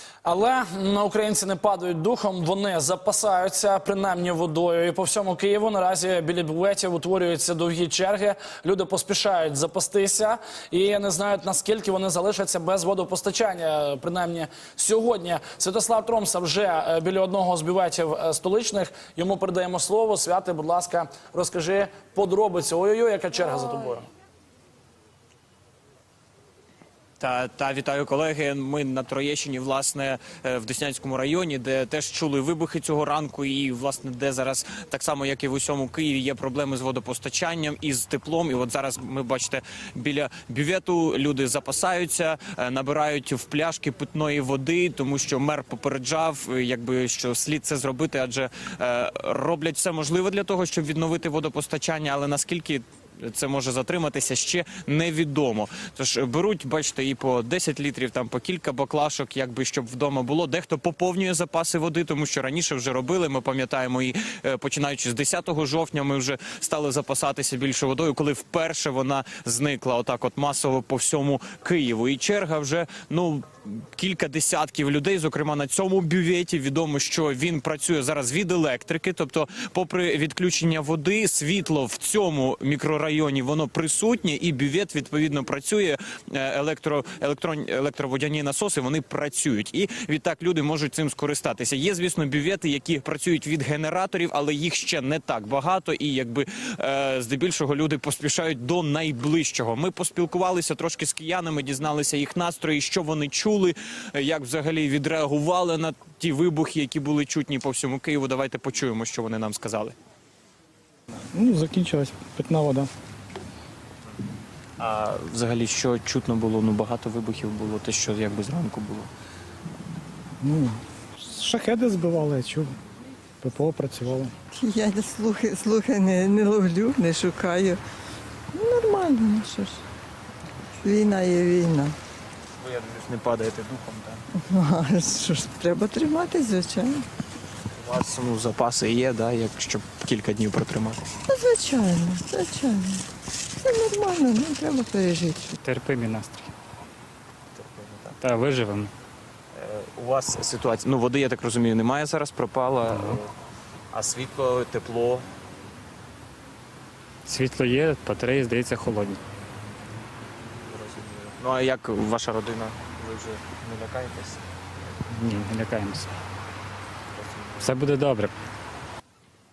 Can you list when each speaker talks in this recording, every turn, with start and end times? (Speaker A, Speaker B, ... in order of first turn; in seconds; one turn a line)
Speaker A: 0.2-24.1
Speaker B: 27.2-110.0
Speaker C: 111.2-112.9
Speaker B: 114.8-119.1
Speaker C: 120.4-122.8
Speaker C: 123.4-124.3
Speaker D: 124.5-127.8
Speaker D: 128.5-129.8
Speaker D: 130.8-132.0
Speaker B: 132.6-134.2
Speaker D: 134.3-137.1
Speaker B: 137.8-141.1
Speaker D: 141.3-145.6
Speaker E: 145.6-146.5
Speaker B: 147.6-148.2
Speaker E: 148.2-148.9
Speaker B: 149.5-153.3
Speaker E: 152.9-153.2
Speaker B: 153.9-155.3
Speaker E: 157.3-159.2
Speaker B: 160.6-164.4
Speaker E: 165.1-166.1
Speaker B: 167.1-167.7
Speaker E: 167.6-168.3